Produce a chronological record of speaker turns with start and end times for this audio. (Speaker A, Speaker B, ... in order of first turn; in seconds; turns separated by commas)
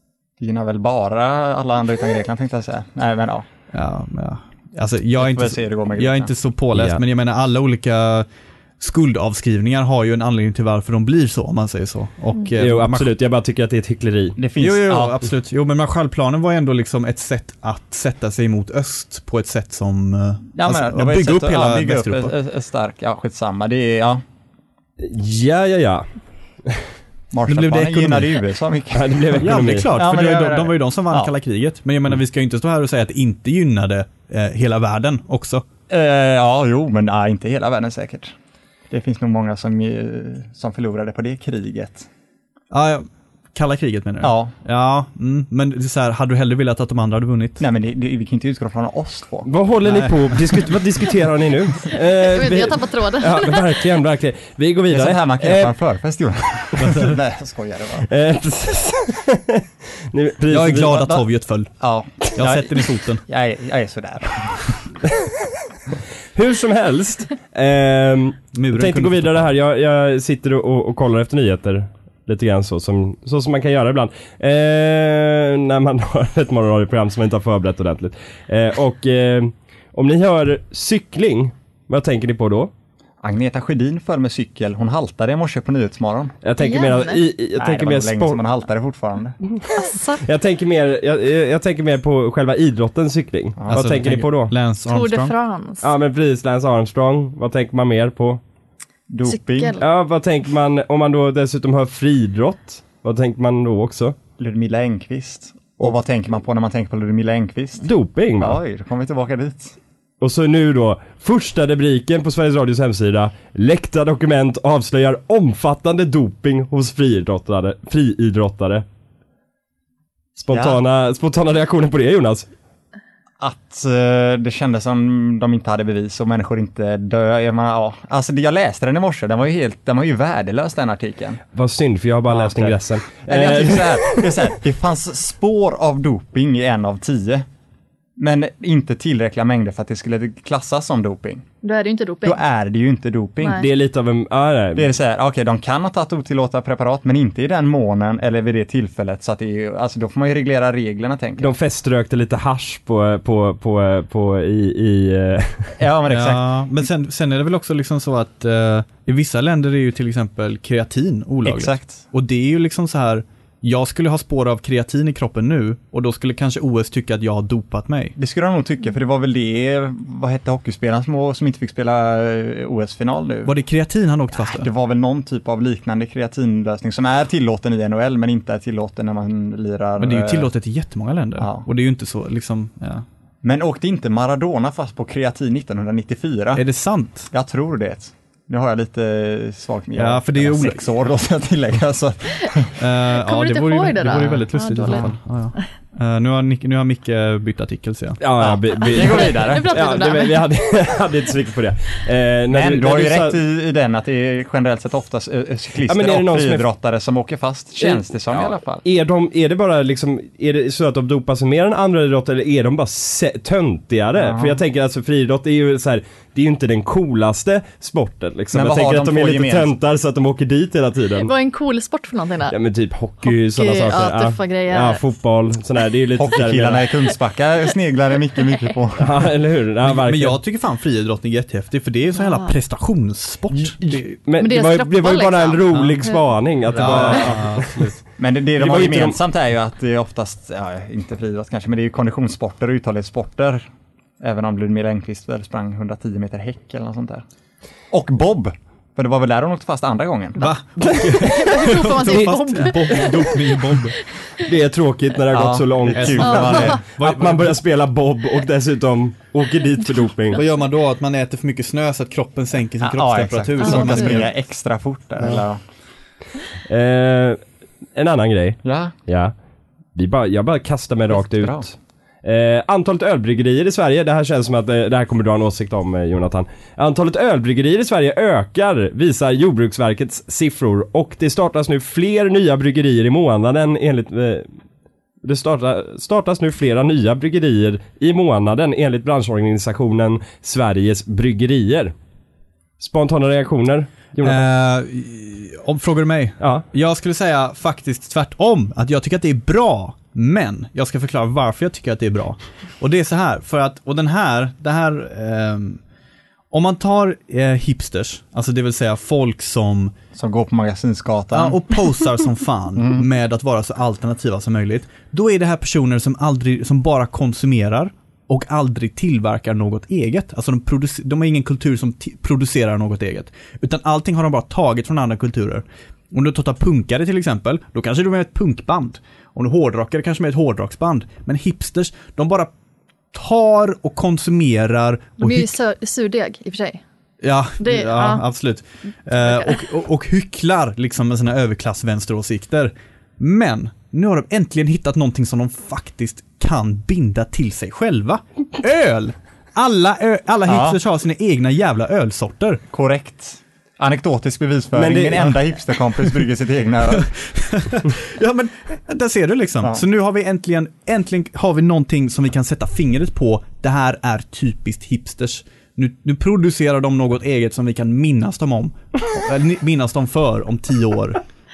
Speaker A: 0.4-3.5, Speaker B: 3.7-8.3, Speaker A: 5.2-6.3, Speaker B: 8.8-13.1, Speaker C: 12.6-14.4, Speaker A: 14.4-15.2, Speaker B: 14.6-22.3, Speaker A: 20.5-24.2, Speaker C: 25.0-26.1, Speaker A: 27.3-31.3, Speaker B: 27.5-28.4, Speaker C: 28.9-29.9, Speaker B: 29.4-35.6, Speaker A: 35.9-38.3, Speaker A: 38.9-42.1, Speaker B: 42.7-47.6, Speaker A: 44.2-44.5, Speaker A: 47.6-49.5, Speaker C: 49.5-55.7, Speaker B: 49.8-50.2, Speaker D: 52.2-53.7, Speaker A: 54.9-58.1, Speaker B: 56.8-57.1, Speaker C: 58.1-60.9, Speaker B: 60.5-61.7, Speaker A: 60.8-61.2, Speaker A: 61.8-64.8, Speaker B: 62.3-63.2, Speaker C: 66.3-82.7, Speaker B: 68.5-69.5, Speaker A: 83.2-86.3, Speaker C: 86.4-88.4, Speaker D: 86.6-87.2, Speaker A: 87.5-89.4, Speaker C: 89.5-94.5, Speaker D: 89.7-90.2, Speaker A: 93.6-93.9, Speaker B: 93.7-95.3, Speaker D: 94.9-95.8, Speaker C: 95.8-98.4, Speaker A: 99.1-99.8, Speaker D: 99.2-99.8, Speaker C: 99.8-104.2, Speaker A: 104.4-109.8, Speaker C: 107.8-108.6, Speaker C: 110.2-118.8, Speaker C: 120.3-122.5, Speaker A: 120.5-120.8, Speaker A: 123.4-131.4, Speaker C: 131.5-134.5, Speaker A: 132.3-137.4, Speaker A: 138.2-141.4, Speaker D: 141.6-142.4, Speaker A: 142.2-143.7, Speaker C: 143.6-144.9, Speaker A: 144.7-151.5, Speaker C: 151.4-155.8, Speaker A: 155.8-156.6, Speaker B: 156.1-168.2, Speaker A: 161.4-162.0, Speaker A: 168.2-173.5, Speaker B: 173.4-174.7, Speaker A: 174.4-180.5, Speaker B: 180.0-183.0, Speaker A: 181.4-181.7, Speaker A: 183.4-186.6, Speaker B: 186.5-187.3, Speaker A: 187.3-192.8, Speaker B: 189.9-190.8, Speaker B: 192.8-198.2, Speaker D: 193.1-195.6, Speaker A: 194.8-195.1, Speaker C: 198.2-203.4, Speaker A: 198.4-199.7, Speaker D: 198.8-200.5, Speaker A: 202.5-208.8, Speaker C: 205.9-206.6, Speaker C: 207.8-221.3, Speaker A: 214.2-214.6, Speaker A: 218.5-219.7, Speaker D: 221.2-222.6, Speaker C: 222.5-226.9, Speaker D: 223.2-225.0, Speaker A: 226.2-229.3, Speaker C: 229.0-230.4, Speaker B: 229.8-234.2, Speaker D: 232.2-232.5, Speaker C: 233.5-237.8, Speaker D: 234.4-236.2, Speaker B: 236.7-238.0, Speaker A: 236.7-237.4, Speaker A: 238.2-243.6, Speaker C: 238.6-239.2, Speaker A: 244.2-247.2, Speaker A: 247.9-250.5, Speaker B: 250.4-253.9, Speaker D: 251.2-253.2, Speaker C: 252.0-252.4, Speaker C: 254.4-260.4, Speaker A: 255.3-256.8, Speaker B: 255.9-257.6, Speaker D: 256.3-256.7, Speaker B: 260.3-264.3, Speaker A: 262.8-265.6, Speaker D: 263.6-264.1, Speaker C: 266.7-267.4, Speaker C: 267.9-269.3, Speaker A: 268.6-268.9, Speaker C: 269.9-271.7, Speaker A: 271.1-271.7, Speaker C: 272.2-284.5, Speaker C: 285.2-291.9, Speaker C: 292.8-294.5, Speaker B: 294.2-305.8, Speaker C: 296.4-296.6, Speaker B: 306.5-309.9, Speaker A: 310.1-311.6, Speaker B: 311.3-332.5, Speaker A: 312.8-313.0, Speaker B: 333.1-335.5, Speaker D: 335.2-336.8, Speaker B: 337.2-352.6, Speaker D: 337.6-338.2, Speaker D: 339.2-339.6, Speaker A: 350.5-350.8, Speaker A: 352.7-357.1, Speaker C: 354.8-355.3, Speaker B: 357.1-371.2